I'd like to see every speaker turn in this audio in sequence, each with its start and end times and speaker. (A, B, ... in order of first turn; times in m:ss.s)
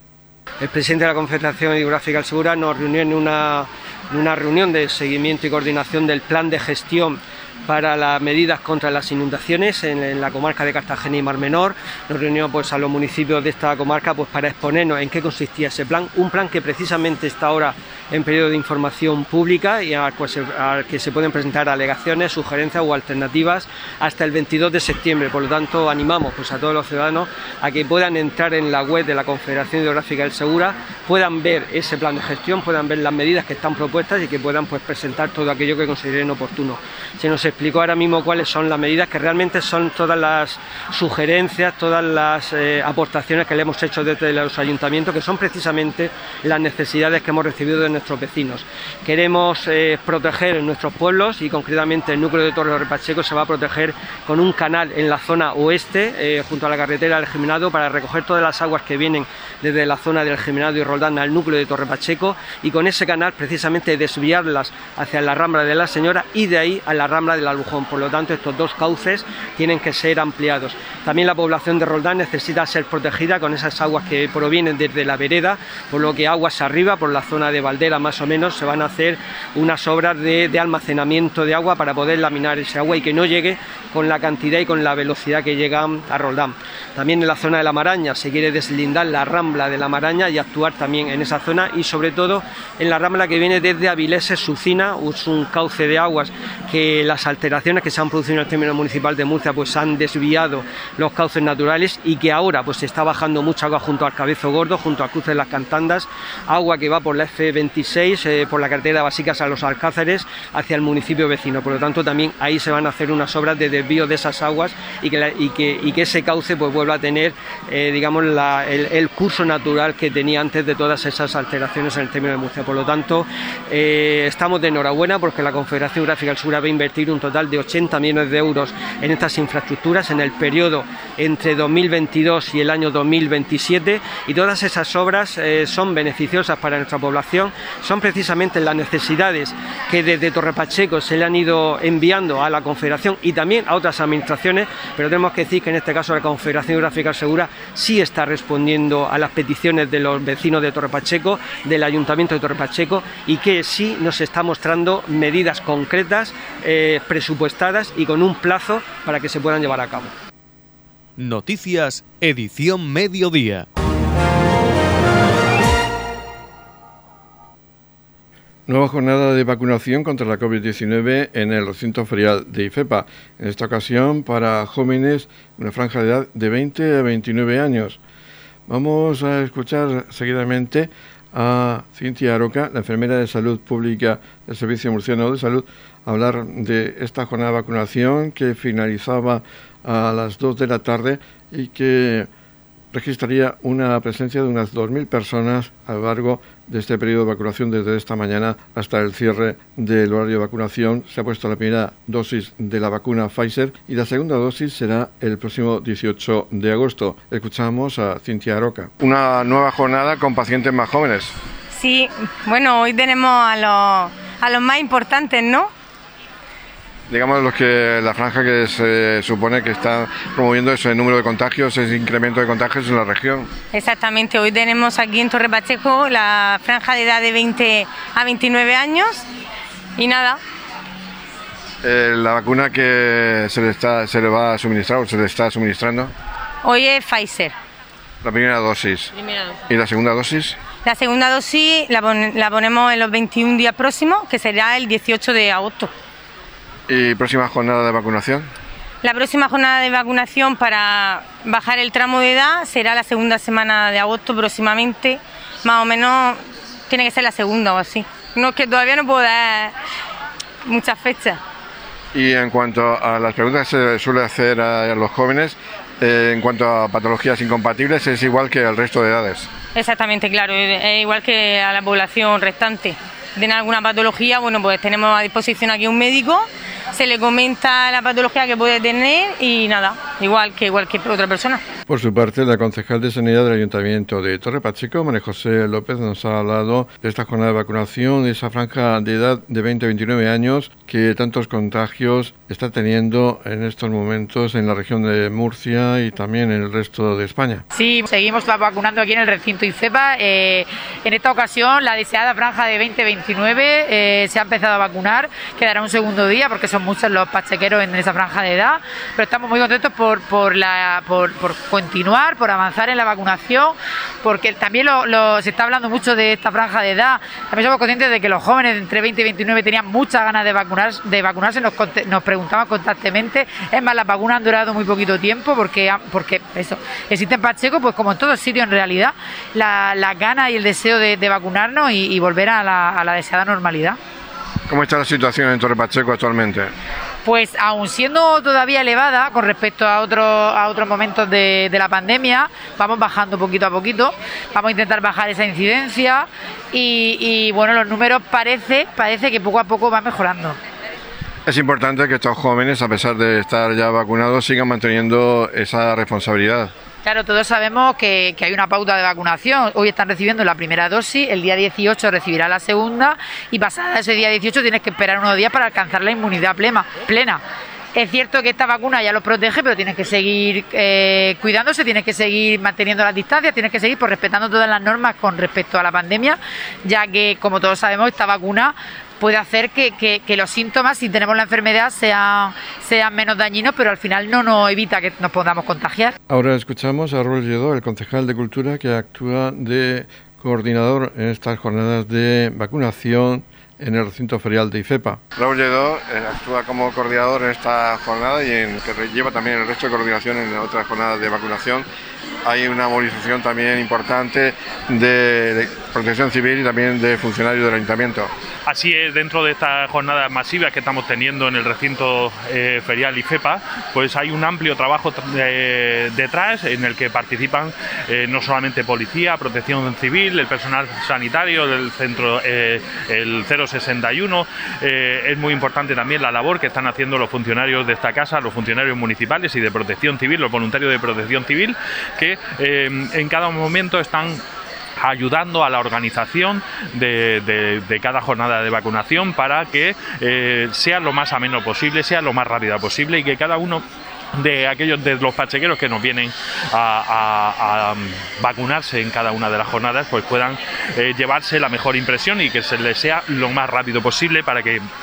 0:00.6-2:40.1 A
2:41.2-2:43.6 B
2:48.7-2:58.0 C
2:58.7-3:12.3 C
3:12.9-3:31.3 C
3:31.7-3:35.7 D
3:37.1-3:43.5 C
3:43.7-3:49.2 D
3:50.0-3:50.4 D
3:51.8-3:56.1 C
3:56.6-3:57.5 D
3:58.2-3:59.1 C
3:59.7-4:00.6 C
4:00.8-4:05.9 D
4:06.9-4:08.5 C
4:09.0-4:19.7 D
4:20.6-4:21.4 D
4:22.1-4:29.5 C
4:29.7-4:41.6 D
4:41.9-4:57.6 C
4:57.7-5:34.0 E
5:34.7-5:36.7 C
5:37.2-5:50.6 E
5:51.5-5:56.7 C
5:57.0-6:07.4 E
6:07.9-6:26.1 E
6:26.3-6:41.8 C
6:42.4-6:48.2 C
6:48.6-7:14.4 F
7:15.0-7:34.8 F